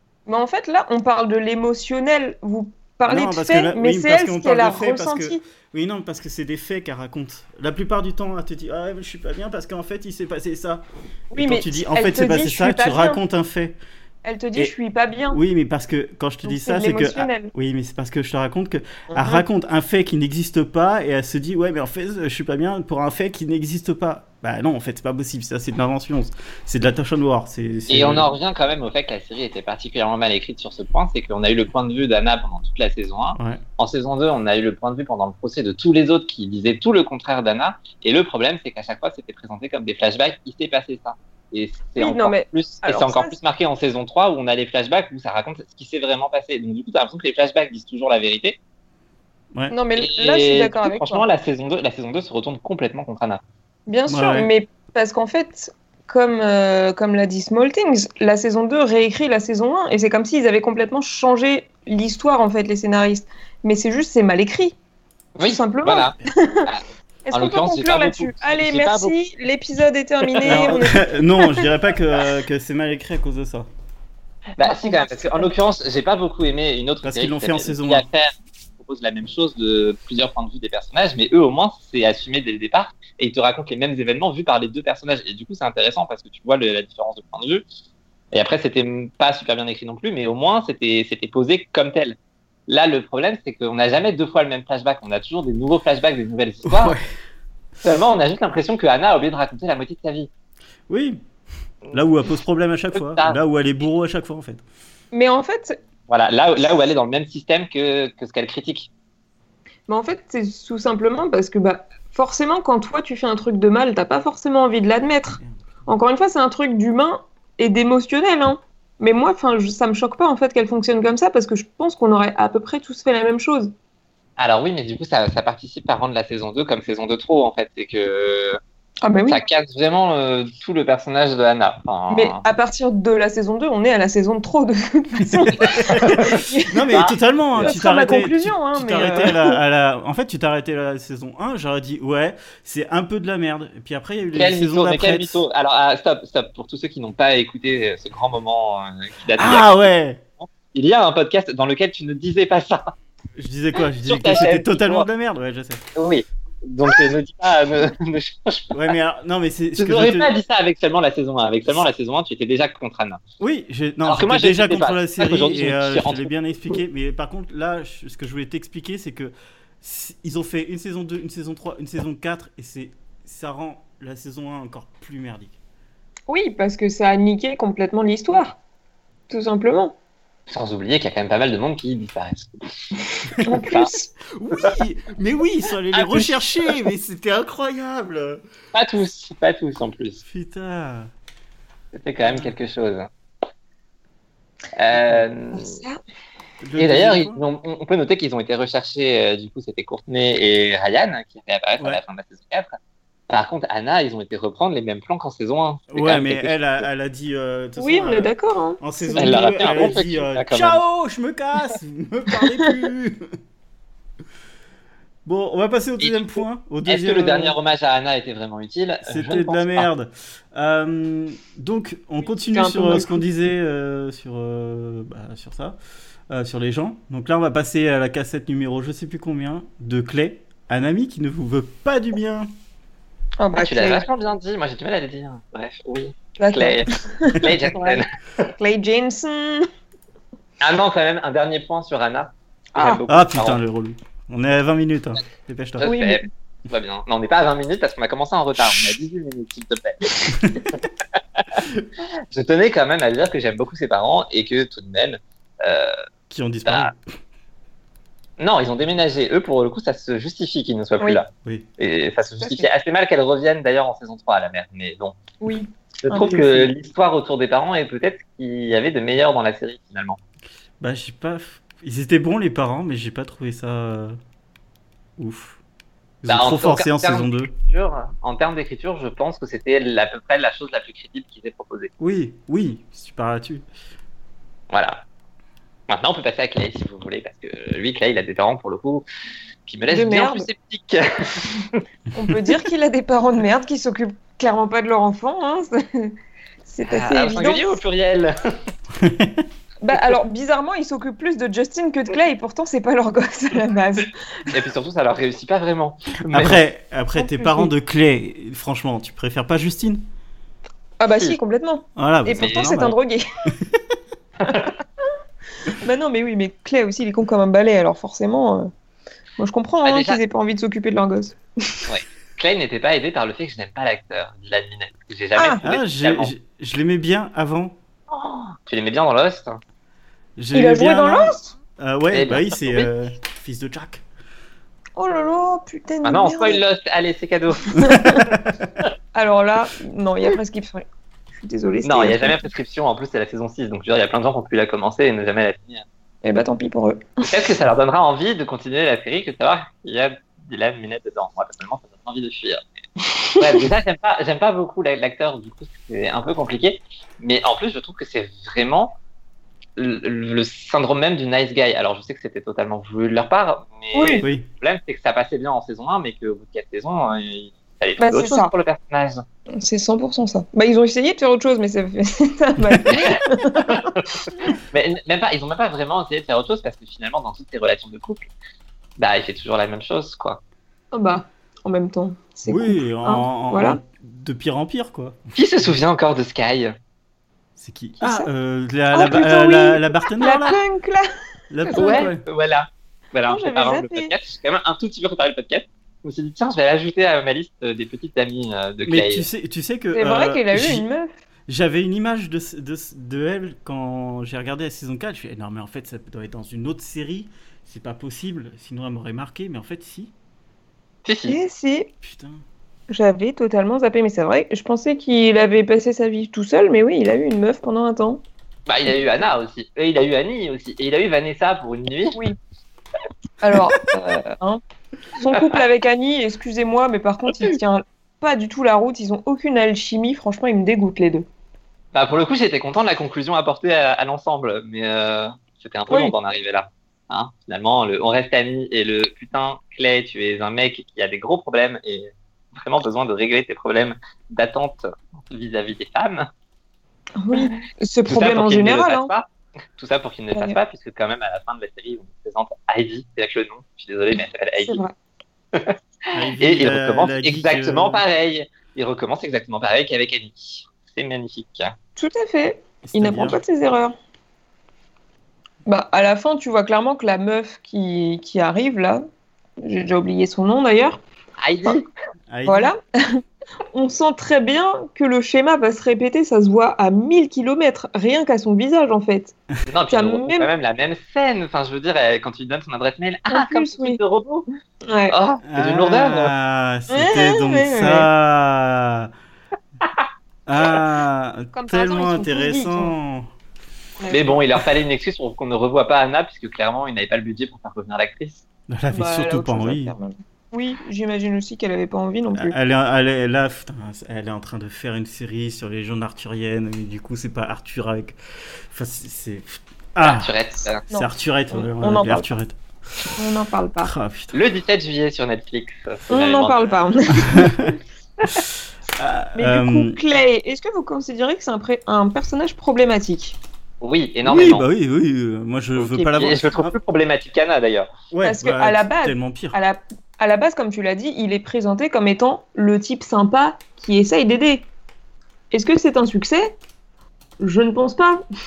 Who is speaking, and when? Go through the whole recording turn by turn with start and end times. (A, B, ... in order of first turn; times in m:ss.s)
0:00.3-0:05.4 A
0:03.1-0:10.8 B
0:11.3-0:13.2 A
0:11.3-0:13.8 B
0:14.2-0:15.4 A
0:15.3-0:28.3 B
0:16.4-0:17.5 A
0:19.1-0:19.4 A
0:27.9-0:48.6 C
0:33.4-0:33.6 B
0:42.0-0:43.4 A
0:49.7-0:51.2 A
0:50.0-0:53.4 C
0:53.9-1:04.7 A
0:54.1-0:54.5 B
1:05.4-1:09.1 C
1:05.4-1:06.7 A
1:07.3-1:11.6 A
1:10.2-1:10.8 C
1:10.4-1:13.7 B
1:14.6-1:27.6 C
1:14.6-1:15.5 A
1:17.0-1:18.0 B
1:28.3-1:32.2 C
1:32.7-1:37.0 C
1:36.6-1:37.0 B
1:37.8-1:40.3 C
1:40.9-1:41.2 B
1:41.9-1:44.6 B
1:42.9-1:43.4 C
1:45.1-1:45.8 A
1:46.1-1:48.9 C
1:49.9-2:03.7 A
2:04.4-2:08.6 C
2:09.0-2:09.4 A
2:09.3-2:12.4 C
2:12.1-2:16.9 A
2:15.2-2:25.4 B
2:16.0-2:16.3 C
2:16.9-2:17.8 C
2:17.6-2:19.6 A
2:24.3-2:29.9 C
2:29.4-2:30.2 B
2:30.4-2:32.9 C
2:33.4-2:35.8 B
2:34.0-2:35.1 C
2:36.0-2:38.9 C
2:38.7-2:40.3 B
2:39.8-2:43.2 C
2:43.4-2:55.6 B
2:44.0-2:46.3 C
2:56.3-2:58.6 A
2:59.3-2:59.9 A
3:00.5-3:03.9 C
3:03.3-3:03.6 B
3:03.4-3:04.1 A
3:04.2-3:08.4 B
3:05.9-3:06.8 C
3:08.7-3:10.2 C
3:10.2-3:11.1 B
3:11.9-3:13.1 C
3:12.2-3:12.5 B
3:14.8-3:15.8 C
3:14.9-3:15.2 B
3:15.5-3:16.0 A
3:16.6-3:17.4 B
3:16.8-3:22.7 C
3:23.3-3:26.8 C
3:25.9-3:33.3 B
3:27.8-3:30.0 A
3:29.2-3:30.8 C
3:35.2-3:37.6 B
3:36.0-3:39.8 C
3:39.0-3:45.8 B
3:42.5-3:43.2 A
3:46.3-3:52.5 B
3:53.4-3:54.0 A
3:53.6-3:58.5 C
3:56.4-3:58.0 A
3:58.6-3:59.7 A
4:00.6-4:03.6 C
4:02.8-4:03.0 A
4:03.1-4:05.9 B
4:05.8-4:10.8 C
4:05.8-4:06.2 A
4:10.3-4:10.6 B
4:11.4-4:11.6 C
4:12.3-4:15.9 C
4:16.3-4:17.0 B
4:16.6-4:16.9 C
4:18.4-4:25.2 C
4:22.4-4:22.7 A
4:25.4-4:26.7 A
4:26.0-4:30.2 C
4:30.8-4:34.2 B
4:35.2-4:35.6 B
4:36.2-4:37.5 B
4:36.3-4:41.9 C
4:42.0-4:43.6 B
4:44.7-4:45.0 C
4:45.9-4:49.0 C
4:49.7-4:51.8 C
4:49.9-4:50.5 A
4:52.1-4:56.1 A
4:56.6-4:57.8 A
4:56.8-4:58.5 C
4:59.0-4:59.4 B
4:59.8-5:04.5 A
5:04.5-5:06.6 C
5:06.3-5:10.0 B
5:07.2-5:07.7 A
5:11.0-5:13.2 A
5:11.1-5:11.4 C
5:12.0-5:12.9 B
5:12.4-5:12.8 C
5:13.5-5:13.8 B
5:14.4-5:14.7 C
5:15.7-5:18.7 A
5:19.4-5:21.9 A
5:19.8-5:20.2 C
5:21.9-5:26.3 C
5:25.4-5:25.6 A
5:25.6-5:27.8 B
5:28.1-5:29.6 C
5:30.4-5:34.0 B
5:30.5-5:31.5 A
5:32.1-5:32.9 C
5:35.0-5:36.6 A
5:36.0-5:38.0 C
5:37.7-5:38.3 A
5:37.8-5:38.5 B
5:39.1-5:42.4 A
5:41.8-5:45.8 C
5:46.2-5:47.3 A
5:47.3-5:52.6 C
5:53.1-5:53.6 A
5:53.4-5:59.0 C
5:59.8-6:09.2 C
6:03.9-6:04.2 A
6:04.2-6:04.5 B
6:08.0-6:08.5 A
6:09.5-6:13.9 A
6:12.6-6:13.0 B
6:12.9-6:18.3 C
6:19.0-6:20.4 C
6:20.9-6:23.8 A
6:22.4-6:25.7 B
6:25.4-6:26.7 C
6:27.6-6:30.6 B
6:28.0-6:28.3 A
6:28.9-6:31.0 A
6:31.5-6:32.2 B
6:31.7-6:32.1 A
6:31.7-6:39.2 C
6:33.3-6:34.1 A
6:38.8-6:40.8 B
6:39.9-6:41.1 A
6:41.5-6:50.1 B
6:51.0-6:51.4 C
6:51.3-6:51.9 A
6:52.0-6:52.4 B
6:52.9-6:58.2 A
6:58.7-7:02.2 C
7:03.4-7:04.6 A
7:05.2-7:11.2 A
7:05.3-7:05.6 C
7:11.9-7:26.3 C
7:15.9-7:16.1 A
7:27.2-7:29.1 A
7:27.3-7:29.2 C
7:29.8-7:34.8 C
7:30.3-7:30.6 A
7:34.6-7:34.9 A
7:35.5-7:41.7 C
7:36.1-7:38.0 B
7:42.0-7:43.9 A
7:42.8-7:43.4 B
7:45.6-7:49.0 A
7:49.6-7:51.0 A
7:51.4-7:51.9 C
7:52.3-7:52.7 B
7:52.4-7:53.2 A
7:53.7-7:59.3 A
7:59.6-8:04.5 C
7:59.9-8:00.5 A
8:03.3-8:04.0 A
8:04.9-8:05.1 A
8:05.1-8:06.3 C
8:05.4-8:09.1 B
8:06.9-8:08.1 A
8:10.5-8:13.3 B
8:11.5-8:12.9 A
8:14.0-8:14.4 A
8:14.1-8:18.4 C
8:18.7-8:19.9 B
8:18.9-8:22.5 A
8:22.3-8:30.3 B
8:30.0-8:30.8 C
8:30.9-8:32.3 A
8:30.9-8:33.1 B
8:33.2-8:33.9 A
8:33.8-8:34.4 B
8:34.3-8:36.7 C
8:36.1-8:37.7 A
8:37.3-8:37.7 B
8:39.0-8:40.0 B
8:39.3-8:43.4 A
8:43.8-8:44.6 C
8:44.2-8:46.8 B
8:45.8-8:47.9 C
8:48.1-8:49.6 B
8:48.2-8:54.6 A
8:55.5-8:56.6 A
8:57.4-8:58.2 A